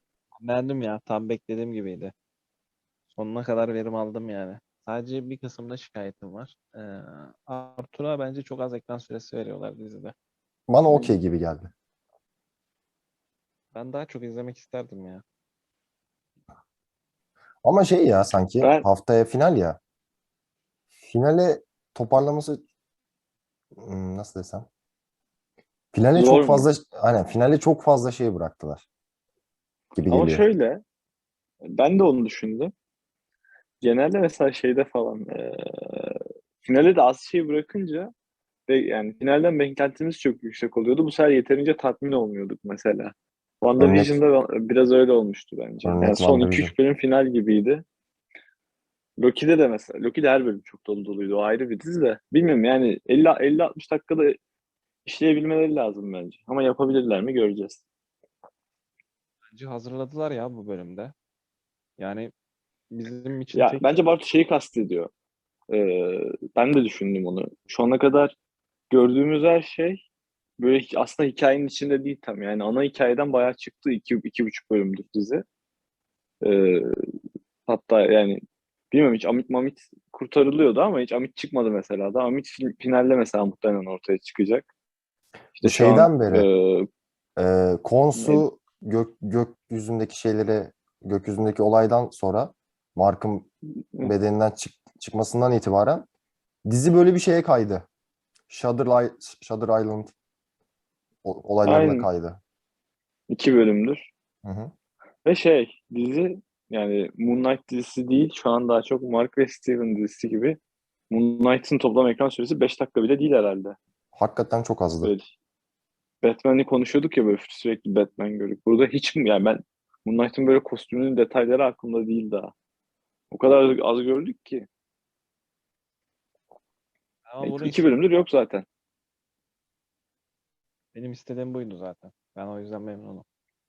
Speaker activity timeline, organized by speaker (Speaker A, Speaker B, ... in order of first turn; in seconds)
Speaker A: 0.4-2.1, 3.1-10.1, 13.7-15.2, 59.5-61.1, 62.0-62.3, 62.9-64.0, 127.2-128.0, 130.9-133.2
Speaker B: 10.7-11.7, 17.6-19.8, 21.0-22.6, 23.8-24.7, 25.9-28.8, 29.9-30.4, 43.8-44.2, 45.8-46.7, 85.6-86.5, 87.4-93.5, 94.0-96.1, 96.7-97.8, 98.5-100.1, 101.2-102.4, 104.4-104.7, 114.1-115.1
Speaker C: 10.9-11.1, 18.6-18.8, 26.1-26.7, 30.1-30.8, 31.7-32.7, 33.8-38.1, 38.7-47.8, 49.2-54.4, 55.0-57.8, 63.5-65.1, 65.7-68.3, 68.9-70.0, 70.6-75.4, 76.4-77.0, 77.7-84.7, 85.6-86.9, 88.1-88.4, 101.6-102.1, 103.3-104.1, 105.2-110.6, 111.1-113.8, 115.0-115.3, 116.2-122.5, 123.3-124.7, 127.4-128.6